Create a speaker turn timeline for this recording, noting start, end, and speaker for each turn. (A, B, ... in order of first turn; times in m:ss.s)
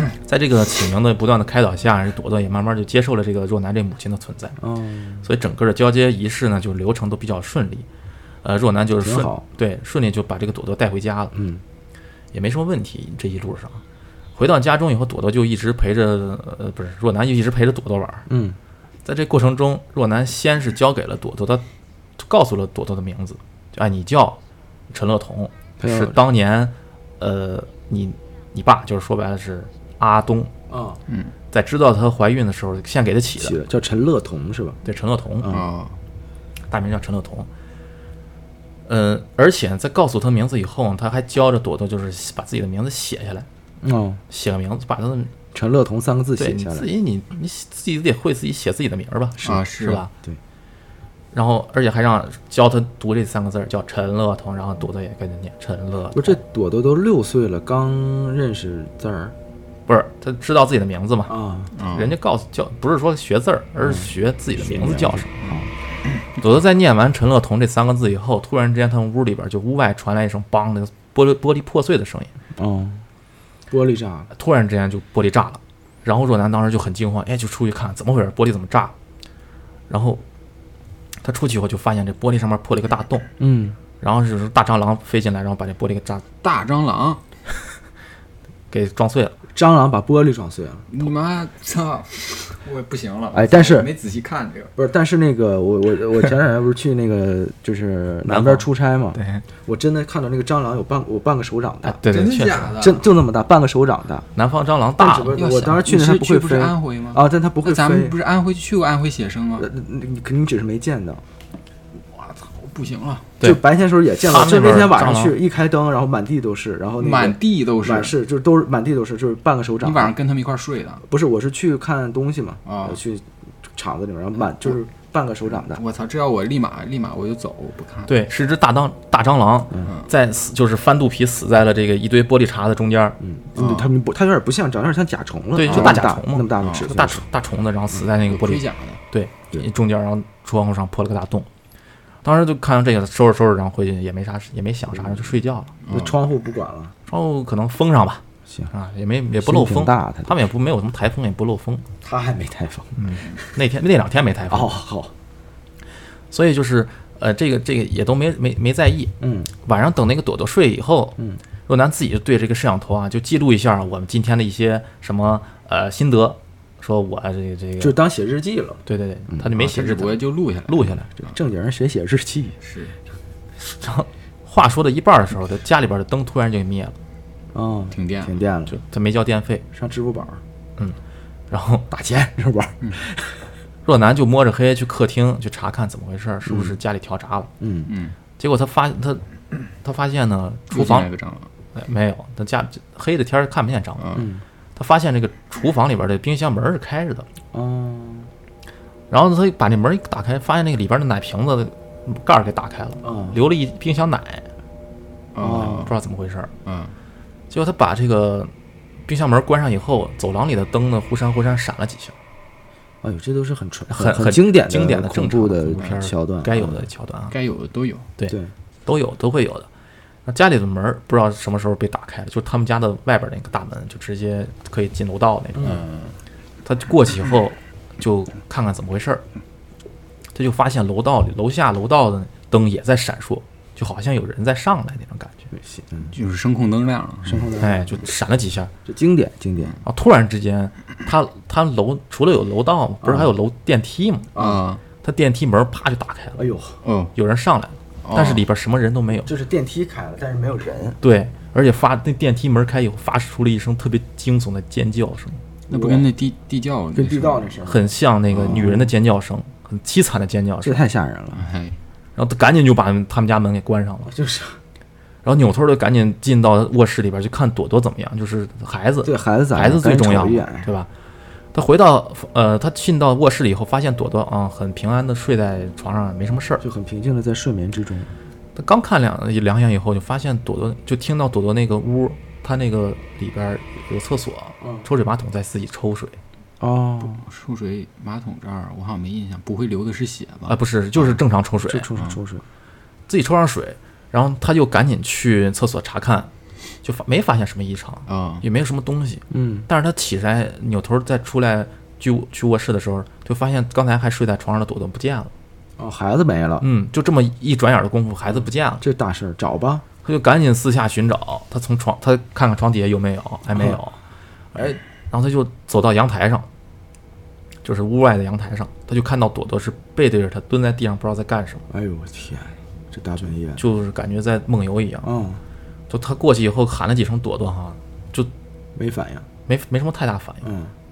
0:00.2-0:04.6 A
0:04.6-0:05.3 B
0:05.2-0:07.9 A
0:08.4-0:11.4 A
0:09.0-0:09.4 B
0:11.3-0:11.6 B
0:12.3-0:13.8 A
0:14.4-0:18.3 A
0:18.3-0:18.6 B
0:19.0-0:21.6 A
0:22.2-0:30.5 A
0:25.8-0:26.2 B
0:30.7-0:31.0 B
0:31.1-0:31.3 C
0:31.5-0:33.6 A
0:33.4-0:34.8 B
0:34.8-0:35.5 A
0:35.4-0:35.7 B
0:35.5-0:36.0 C
0:36.7-0:37.5 A
0:38.9-0:43.5 A
0:43.8-0:44.2 B
0:44.3-0:45.3 A
0:45.5-0:46.9 B
0:46.4-0:50.1 A
0:49.4-0:50.0 C
0:51.3-0:56.4 A
0:56.1-0:59.4 B
0:59.9-1:01.4 A
1:01.3-1:01.7 B
1:01.8-1:02.2 C
1:01.9-1:05.4 A
1:03.8-1:05.7 B
1:06.4-1:12.3 A
1:12.6-1:13.0 B
1:13.7-1:14.3 B
1:14.3-1:18.9 A
1:19.9-1:20.2 A
1:21.2-1:23.3 A
1:23.4-1:23.8 B
1:24.0-1:26.2 A
1:26.4-1:27.2 C
1:28.7-1:29.4 A
1:29.5-1:30.9 B
1:30.9-1:34.7 C
1:33.3-1:33.9 B
1:34.8-1:42.0 B
1:38.2-1:39.4 A
1:41.8-1:42.7 A
1:42.1-1:43.1 C
1:42.7-1:44.3 B
1:44.4-1:45.4 A
1:45.0-1:48.2 B
1:45.3-1:49.7 C
1:49.6-1:51.2 B
1:52.1-1:53.3 C
1:53.4-2:00.2 B
1:54.2-1:55.4 A
1:57.0-1:58.2 C
1:59.8-2:01.0 C
2:01.1-2:05.8 B
2:02.7-2:03.0 C
2:05.7-2:08.1 C
2:08.1-2:13.2 A
2:13.2-2:17.3 B
2:13.6-2:13.9 C
2:15.6-2:21.5 A
2:15.7-2:15.9 C
2:16.6-2:16.9 C
2:18.3-2:19.0 C
2:22.2-2:25.8 A
2:25.0-2:25.3 B
2:25.8-2:26.2 C
2:25.9-2:27.0 B
2:27.1-2:31.8 A
2:29.4-2:30.3 B
2:32.0-2:33.0 B
2:33.0-2:34.7 A
2:34.5-2:35.1 B
2:36.3-2:48.0 A
2:39.2-2:39.5 B
2:47.8-2:49.6 B
2:48.9-2:50.2 A
2:49.6-2:50.9 C
2:50.7-2:51.1 A
2:51.2-2:52.6 B
2:52.6-2:52.9 C
2:53.6-2:57.0 A
2:57.5-2:58.8 B
2:57.9-2:58.3 C
2:58.7-2:59.6 A
2:59.7-3:00.4 B
3:01.5-3:01.9 A
3:01.9-3:03.5 B
3:03.9-3:07.5 A
3:07.6-3:07.9 B
3:07.9-3:08.2 C
3:08.4-3:09.2 A
3:09.8-3:11.1 A
3:10.7-3:11.5 C
3:11.7-3:14.1 A
3:14.0-3:14.3 C
3:14.2-3:14.4 B
3:14.8-3:17.3 A
3:17.5-3:18.3 B
3:19.1-3:24.5 A
3:23.0-3:23.4 B
3:25.4-3:25.9 C
3:25.4-3:25.9 B
3:25.5-3:26.5 A
3:26.6-3:26.9 C
3:27.5-3:28.5 A
3:29.1-3:32.2 A
3:33.0-3:36.8 B
3:33.9-3:37.4 A
3:37.3-3:38.1 C
3:38.2-3:39.7 A
3:38.3-3:38.5 B
3:40.3-3:45.8 A
3:45.6-3:45.8 B
3:45.6-3:46.2 C
3:46.6-3:49.2 A
3:50.3-3:55.5 A
3:55.5-3:56.2 B
3:56.1-3:57.5 C
3:57.2-3:58.0 B
3:57.6-3:58.7 A
3:58.9-3:59.8 B
3:59.8-4:04.3 A
4:03.0-4:03.3 B
4:04.4-4:04.6 B
4:04.4-4:04.8 C
4:05.0-4:06.4 A
4:06.4-4:06.8 B
4:06.8-4:07.1 C
4:07.2-4:09.3 A
4:08.0-4:08.4 C
4:09.3-4:11.0 B
4:11.0-4:15.4 A
4:15.7-4:16.1 B
4:15.7-4:17.5 C
4:17.0-4:18.9 B
4:17.7-4:20.8 A
4:20.6-4:21.5 B
4:21.3-4:21.8 C
4:22.2-4:24.1 A
4:24.0-4:24.6 B
4:25.2-4:30.9 A
4:29.0-4:30.7 B
4:31.5-4:36.6 A
4:36.6-4:38.1 B
4:38.6-4:46.2 A
4:44.6-4:44.9 B
4:46.6-4:47.2 B
4:47.2-4:51.1 C
4:50.5-4:51.9 A
4:51.6-4:52.4 B
4:53.1-4:56.3 A
4:56.8-5:05.3 A
4:58.1-4:58.4 C
4:59.3-4:59.7 B
5:05.8-5:06.7 B
5:06.6-5:08.8 A
5:08.8-5:09.8 B
5:10.0-5:14.0 A
5:13.5-5:13.8 B
5:14.6-5:16.5 A
5:17.6-5:21.6 A
5:21.7-5:23.6 B
5:23.6-5:25.1 A
5:25.0-5:25.4 B
5:25.9-5:28.3 A
5:28.8-5:29.3 B
5:29.5-5:30.5 A
5:30.4-5:30.7 B